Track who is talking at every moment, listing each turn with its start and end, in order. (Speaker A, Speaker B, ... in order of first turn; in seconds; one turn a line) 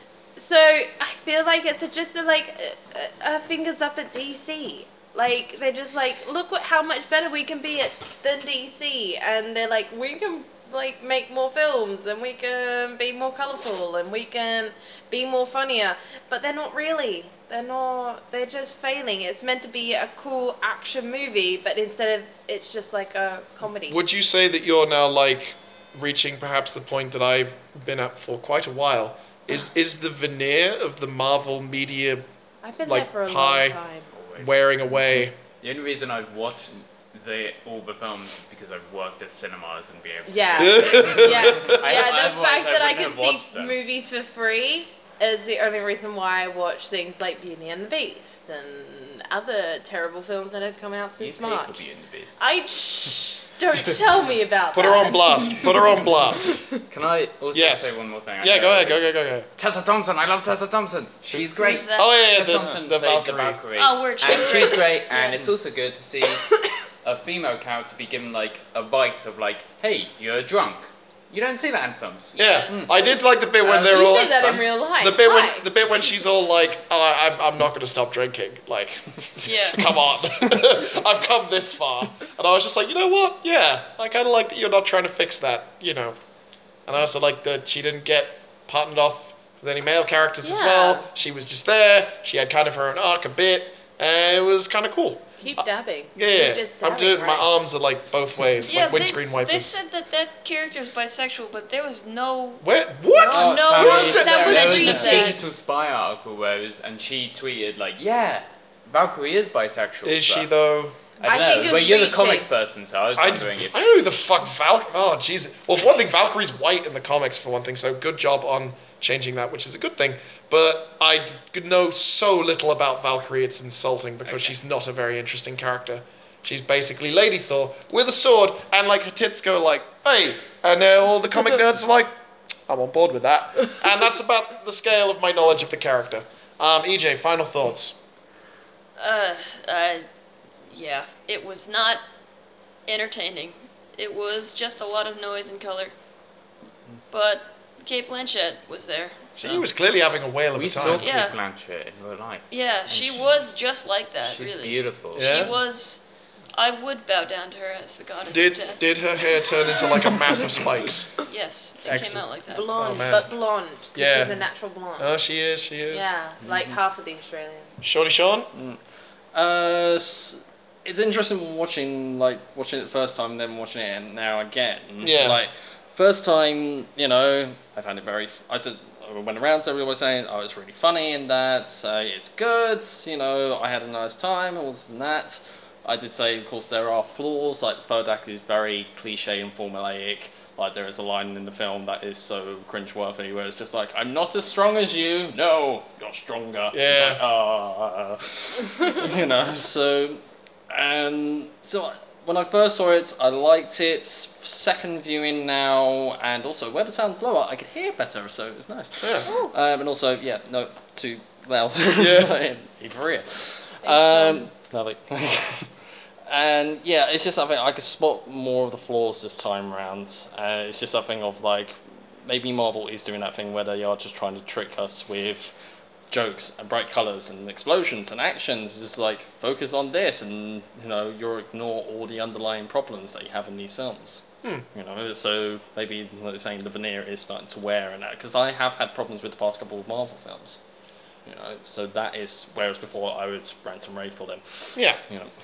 Speaker A: 0.4-24.0
Speaker B: 23.9-32.2
Speaker A: 32.6-34.1
Speaker B: 32.8-33.8
Speaker C: 34.1-34.6
Speaker B: 34.4-35.3
Speaker C: 35.6-43.8
Speaker A: 40.3-51.8
Speaker B: 40.6-42.0
Speaker C: 51.2-52.4
Speaker A: 52.4-55.7
Speaker B: 54.7-56.6
Speaker C: 56.9-59.0
Speaker B: 57.5-59.5
Speaker C: 59.6-66.5
Speaker D: 61.5-62.2
Speaker B: 62.0-63.6
Speaker D: 63.7-65.4
Speaker A: 64.2-65.2
Speaker C: 67.0-73.0
Speaker D: 72.3-72.7
Speaker B: 72.4-86.2
Speaker C: 73.6-74.6
Speaker A: 73.7-75.7
Speaker D: 79.4-79.8
Speaker B: 86.9-99.8
Speaker A: 90.4-91.0
Speaker A: 95.4-97.5
Speaker D: 98.6-102.6
Speaker B: 102.6-104.8
Speaker D: 103.2-105.4
Speaker A: 103.2-105.4
Speaker E: 103.3-103.9
Speaker C: 103.7-110.5
Speaker E: 104.7-105.1
Speaker B: 110.0-111.7
Speaker C: 111.2-113.8
Speaker A: 111.2-112.5
Speaker B: 113.2-132.1
Speaker C: 124.3-124.5
Speaker B: 132.7-138.0
Speaker D: 139.0-140.1
Speaker D: 140.7-142.0
Speaker D: 142.8-145.9
Speaker D: 147.1-149.3
Speaker B: 149.3-151.1
Speaker C: 150.5-153.2
Speaker D: 151.0-151.3
Speaker D: 152.5-156.0
Speaker C: 154.2-155.3
Speaker B: 155.2-155.6
Speaker D: 156.5-158.8
Speaker B: 158.3-161.1
Speaker D: 161.2-162.7
Speaker B: 161.8-163.3
Speaker A: 162.5-165.1
Speaker B: 163.9-164.4
Speaker B: 165.0-166.1
Speaker A: 165.9-167.8
Speaker E: 166.4-166.8
Speaker B: 167.8-168.5
Speaker E: 168.5-168.8
Speaker E: 169.3-215.7
Speaker B: 175.0-175.4
Speaker B: 196.7-197.2
Speaker B: 209.0-209.3
Speaker A: 209.2-209.5
Speaker B: 211.9-212.3
Speaker A: 213.8-214.4
Speaker E: 216.3-225.5
Speaker E: 226.1-240.6
Speaker E: 241.2-244.4
Speaker B: 244.8-245.0